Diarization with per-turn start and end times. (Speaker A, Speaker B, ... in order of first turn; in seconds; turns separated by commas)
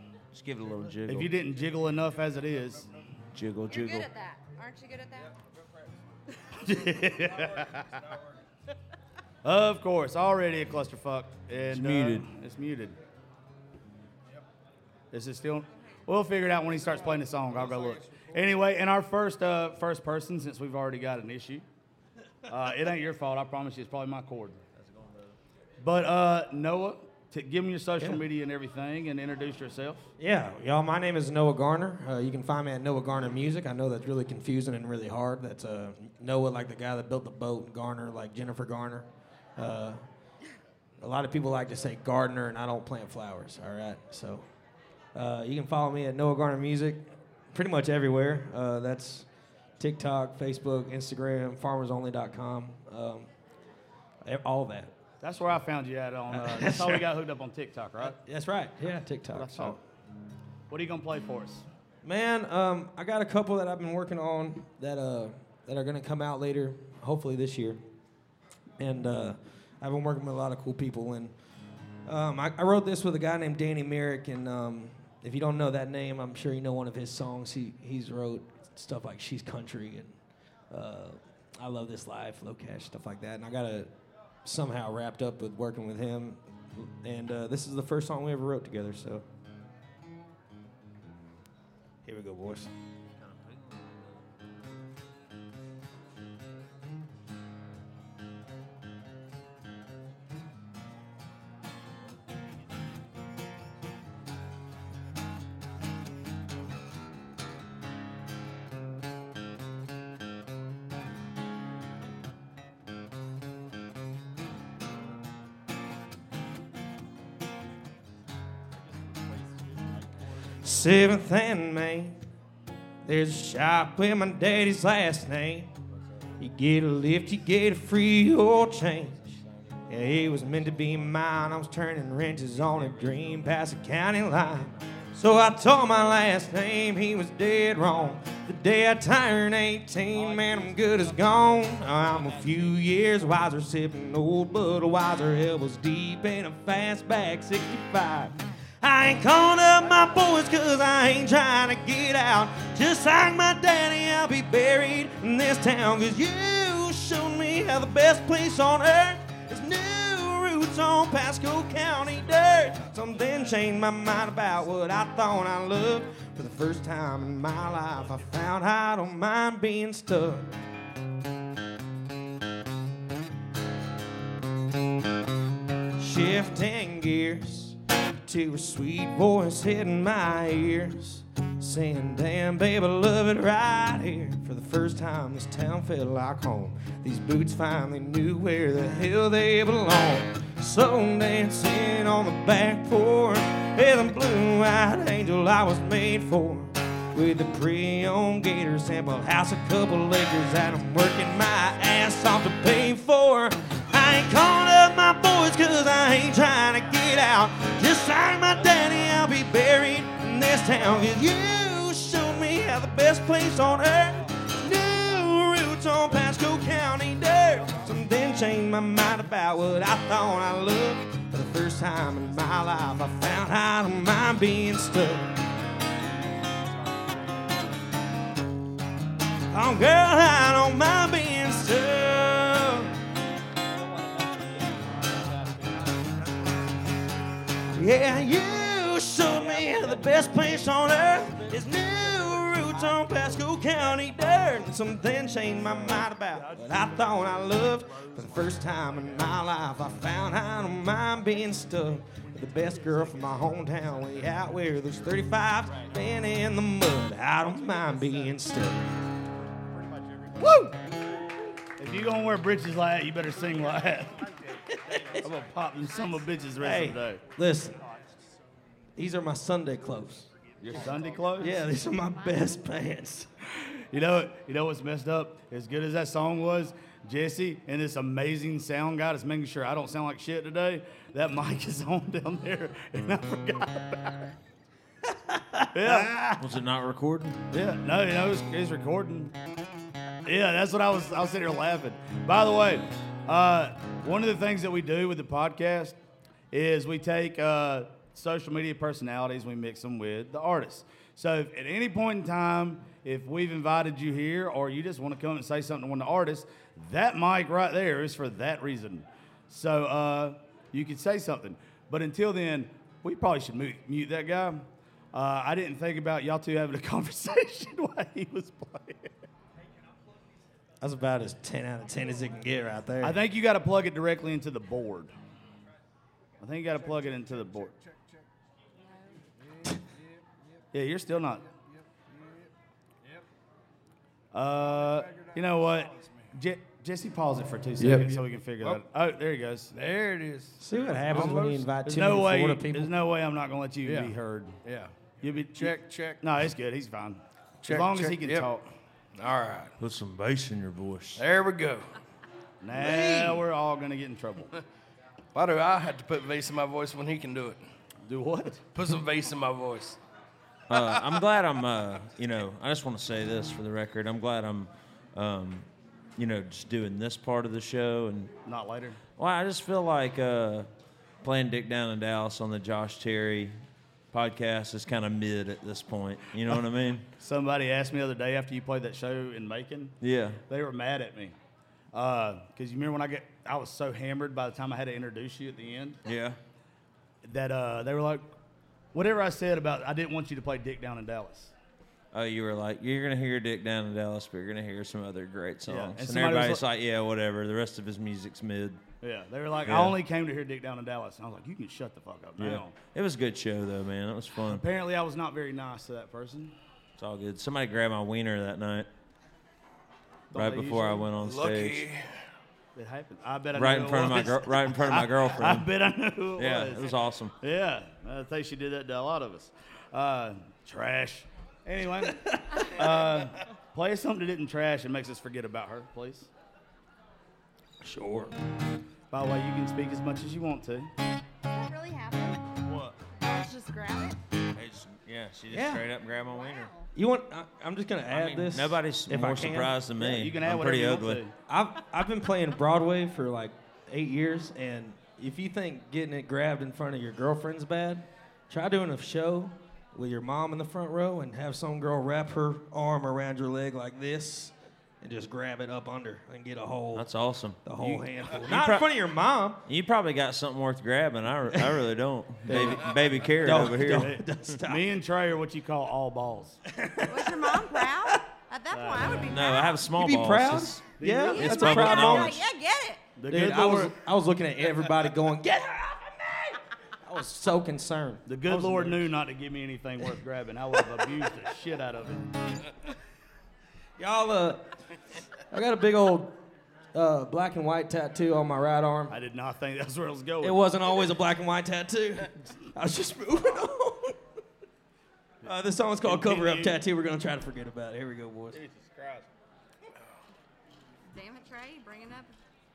Speaker A: 0.3-1.3, Speaker B: 1.1-2.9, Speaker A: 3.3-4.1, Speaker C: 3.7-5.4, Speaker B: 6.6-7.9, Speaker B: 9.4-13.0, Speaker A: 11.7-12.3, Speaker B: 15.1-21.6, Speaker C: 15.7-16.0, Speaker B: 22.4-24.6, Speaker B: 25.8-30.1, Speaker D: 30.2-40.0, Speaker D: 41.0-44.5, Speaker D: 45.1-49.3, Speaker D: 49.8-53.3, Speaker D: 54.2-54.9, Speaker B: 55.2-58.2, Speaker D: 56.3-57.1, Speaker D: 58.0-59.8, Speaker B: 59.3-59.8, Speaker B: 60.7-61.7, Speaker D: 62.0-67.8, Speaker D: 68.8-71.4, Speaker D: 72.0-80.2, Speaker D: 80.7-83.9, Speaker D: 84.4-89.2, Speaker D: 92.1-92.7, Speaker D: 120.6-122.2, Speaker D: 123.1-125.7, Speaker D: 126.4-129.3, Speaker D: 129.9-170.5, Speaker D: 176.0-225.3, Speaker D: 229.5-232.9, Speaker D: 237.7-258.9, Speaker B: 246.2-248.8, Speaker B: 260.4-260.8, Speaker B: 261.8-264.4, Speaker D: 264.7-265.2, Speaker B: 265.1-267.2, Speaker D: 266.6-267.8, Speaker D: 269.0-270.3, Speaker B: 270.6-271.6, Speaker D: 271.4-273.3, Speaker B: 273.6-284.3, Speaker D: 285.3-285.7, Speaker B: 285.7-286.5, Speaker A: 286.4-287.4, Speaker B: 287.5-289.4, Speaker B: 290.2-296.0, Speaker B: 296.5-319.1, Speaker D: 320.8-323.2, Speaker B: 323.0-325.1, Speaker B: 326.4-327.8, Speaker B: 330.7-331.5, Speaker B: 334.3-339.7, Speaker E: 339.7-341.7, Speaker D: 340.6-342.9, Speaker B: 341.8-344.6, Speaker E: 343.9-344.9, Speaker B: 345.2-348.6, Speaker E: 345.6-346.2, Speaker E: 347.6-348.5, Speaker E: 349.2-349.7, Speaker A: 349.8-351.2, Speaker E: 351.2-351.9, Speaker B: 352.6-354.5, Speaker E: 352.8-353.4, Speaker E: 355.3-357.6, Speaker B: 358.0-358.6, Speaker E: 358.7-360.0, Speaker A: 360.7-368.3, Speaker B: 368.5-369.0, Speaker A: 369.2-370.7, Speaker A: 371.2-373.6, Speaker A: 374.1-377.1, Speaker B: 377.2-380.0, Speaker A: 380.0-380.4, Speaker B: 380.5-381.4, Speaker B: 381.9-386.0, Speaker A: 386.1-386.4, Speaker B: 387.2-388.3, Speaker B: 388.9-391.5, Speaker A: 392.1-398.8, Speaker B: 395.7-396.6, Speaker B: 399.0-402.7, Speaker A: 399.6-400.0, Speaker A: 402.4-404.6, Speaker B: 404.4-406.6, Speaker A: 407.0-408.9, Speaker B: 410.3-411.1, Speaker A: 410.3-411.9, Speaker E: 411.2-412.1, Speaker B: 412.8-426.3, Speaker A: 413.6-415.7, Speaker A: 416.4-417.4, Speaker D: 422.3-422.7, Speaker D: 427.8-428.3, Speaker B: 429.1-430.9, Speaker C: 431.5-434.2, Speaker A: 434.6-436.7, Speaker D: 435.5-435.9, Speaker C: 436.3-436.9, Speaker D: 436.9-439.8, Speaker A: 438.1-441.2, Speaker B: 440.0-441.3, Speaker D: 441.5-457.1, Speaker A: 456.9-457.6, Speaker D: 457.6-459.6, Speaker B: 457.8-458.9, Speaker A: 459.7-464.2, Speaker B: 462.4-467.1, Speaker D: 463.4-464.8, Speaker C: 467.1-469.9, Speaker B: 468.7-469.3, Speaker A: 469.2-472.5, Speaker D: 470.0-472.4, Speaker B: 471.0-472.2, Speaker C: 471.3-473.0, Speaker B: 473.2-474.0, Speaker D: 473.3-479.0, Speaker B: 478.3-482.3, Speaker D: 484.0-484.7, Speaker D: 485.5-486.4, Speaker D: 486.9-489.2, Speaker B: 489.1-490.6, Speaker D: 490.4-494.2, Speaker D: 495.4-498.6, Speaker B: 496.0-496.8, Speaker B: 498.5-499.3, Speaker C: 501.1-502.3